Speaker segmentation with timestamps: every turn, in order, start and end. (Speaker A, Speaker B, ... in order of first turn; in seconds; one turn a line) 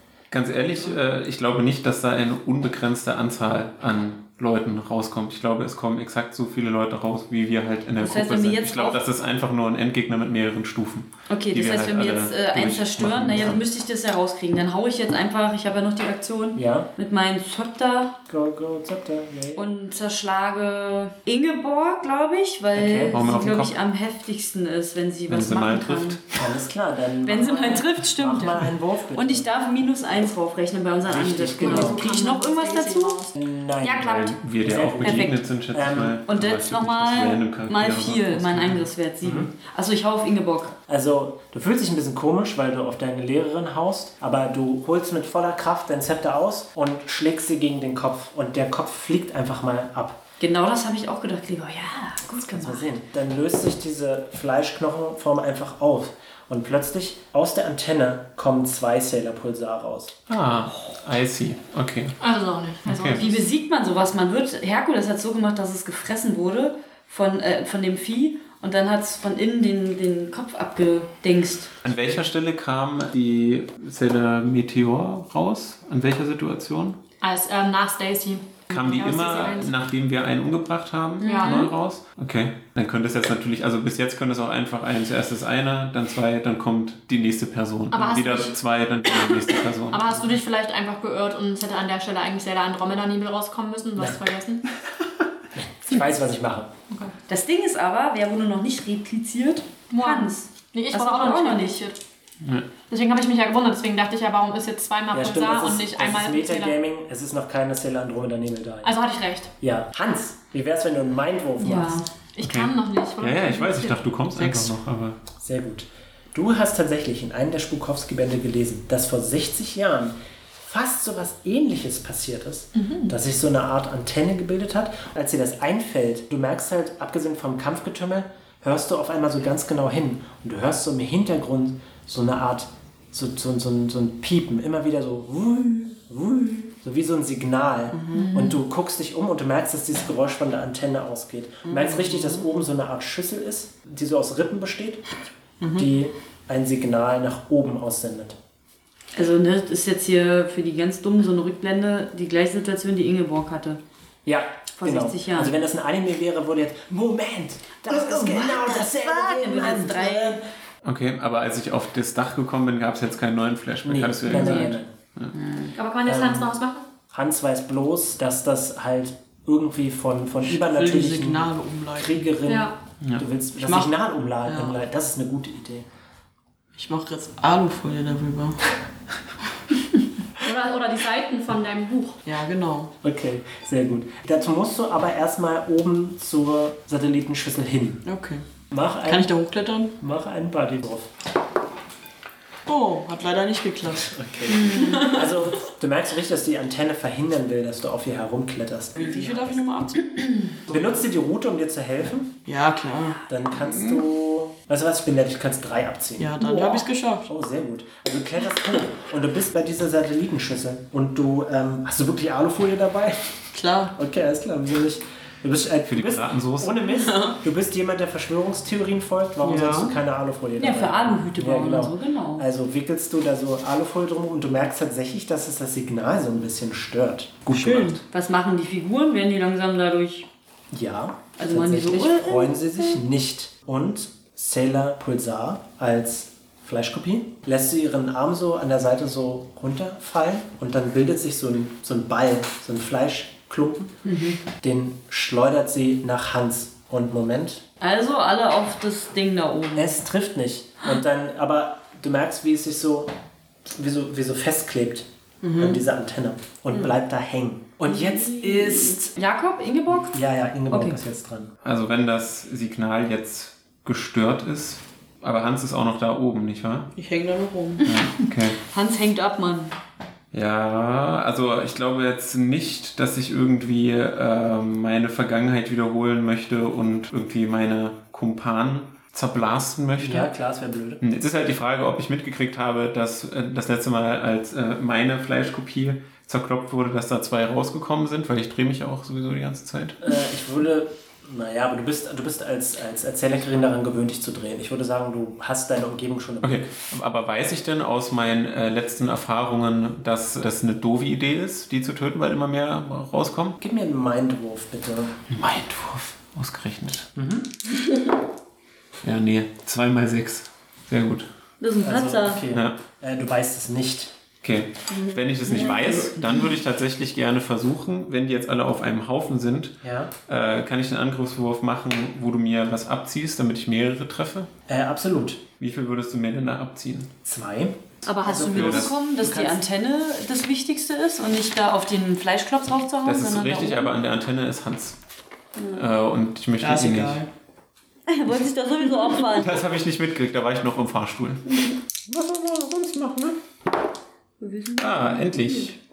Speaker A: 0.3-13.6
Speaker B: 8.0-9.0
Speaker B: 11.3-18.2
Speaker C: 16.6-16.9
Speaker C: 18.3-19.6
Speaker B: 19.5-26.2
Speaker C: 22.7-23.2
Speaker A: 23.1-23.7
Speaker A: 25.3-26.2
Speaker C: 26.4-29.5
Speaker B: 27.2-33.2
Speaker C: 31.0-32.0
Speaker D: 31.6-33.3
Speaker C: 33.3-36.2
Speaker B: 33.8-34.4
Speaker A: 34.0-38.9
Speaker B: 35.0-35.4
Speaker B: 36.3-40.7
Speaker C: 39.2-39.5
Speaker C: 40.9-50.2
Speaker B: 50.4-52.9
Speaker C: 52.5-60.1
Speaker A: 60.3-62.2
Speaker D: 62.2-63.4
Speaker A: 62.8-63.2
Speaker B: 63.1-71.7
Speaker A: 71.8-77.0
Speaker D: 77.2-79.7
Speaker A: 78.7-90.3
Speaker D: 81.2-81.7
Speaker B: 81.2-81.7
Speaker D: 87.9-88.5
Speaker D: 89.9-94.6
Speaker C: 95.5-96.7
Speaker B: 97.3-101.8
Speaker D: 99.9-102.0
Speaker D: 102.9-106.8
Speaker C: 105.1-108.9
Speaker D: 108.8-109.5
Speaker C: 109.6-112.0
Speaker B: 111.6-112.1
Speaker D: 112.3-114.7
Speaker A: 112.4-115.2
Speaker C: 115.4-145.0
Speaker D: 122.7-123.1
Speaker E: 137.9-138.3
Speaker D: 138.1-138.6
Speaker E: 141.7-142.5
Speaker E: 145.6-145.8
Speaker C: 145.7-148.4
Speaker B: 149.1-153.8
Speaker C: 154.2-160.4
Speaker B: 154.8-155.5
Speaker B: 157.8-160.4
Speaker A: 160.8-165.3
Speaker C: 163.8-164.9
Speaker B: 164.3-164.8
Speaker B: 165.3-165.7
Speaker D: 165.7-166.8
Speaker C: 166.0-166.5
Speaker C: 167.1-175.8
Speaker E: 170.5-172.3
Speaker D: 172.5-172.7
Speaker E: 173.6-174.8
Speaker E: 176.8-178.7
Speaker D: 180.4-182.2
Speaker E: 182.2-182.9
Speaker C: 183.0-188.0
Speaker E: 188.0-188.4
Speaker C: 188.7-189.3
Speaker E: 189.0-189.9
Speaker C: 190.0-191.1
Speaker E: 192.7-194.1
Speaker C: 193.9-199.6
Speaker B: 194.5-195.2
Speaker E: 199.0-200.9
Speaker C: 200.7-202.4
Speaker E: 202.4-203.2
Speaker C: 203.3-213.3
Speaker E: 206.2-207.3
Speaker B: 206.4-206.8
Speaker E: 213.5-213.9
Speaker C: 213.9-228.0
Speaker A: 215.9-216.8
Speaker E: 217.0-217.3
Speaker E: 219.4-219.9
Speaker B: 220.6-222.4
Speaker E: 227.5-228.0
Speaker B: 228.1-230.3
Speaker C: 230.7-243.9
Speaker B: 231.4-233.0
Speaker B: 244.0-244.4
Speaker C: 244.4-247.6
Speaker B: 247.8-250.0
Speaker C: 249.7-253.1
Speaker C: 253.7-259.1
Speaker E: 255.4-255.8
Speaker E: 258.6-258.9
Speaker B: 259.1-261.0
Speaker C: 260.1-261.5
Speaker A: 261.6-266.9
Speaker E: 266.9-267.8
Speaker B: 267.8-269.7
Speaker A: 267.8-268.6
Speaker A: 270.3-280.3
Speaker C: 280.0-281.0
Speaker A: 281.0-290.0
Speaker C: 290.0-296.6
Speaker A: 296.4-303.6
Speaker C: 303.6-305.2
Speaker A: 305.3-307.1
Speaker C: 307.1-307.5
Speaker A: 309.0-311.3
Speaker B: 311.6-312.4
Speaker C: 311.8-314.1
Speaker A: 312.5-312.8
Speaker A: 314.4-324.5
Speaker E: 314.9-316.1
Speaker B: 315.5-315.8
Speaker C: 319.8-320.1
Speaker C: 324.7-325.4
Speaker A: 325.6-327.1
Speaker C: 327.2-329.6
Speaker B: 328.0-333.9
Speaker A: 328.5-328.9
Speaker A: 333.0-335.0
Speaker B: 335.6-335.9
Speaker A: 335.7-337.2
Speaker E: 336.6-337.3
Speaker B: 338.1-339.6
Speaker A: 339.2-343.4
Speaker B: 344.4-345.7
Speaker A: 344.8-345.8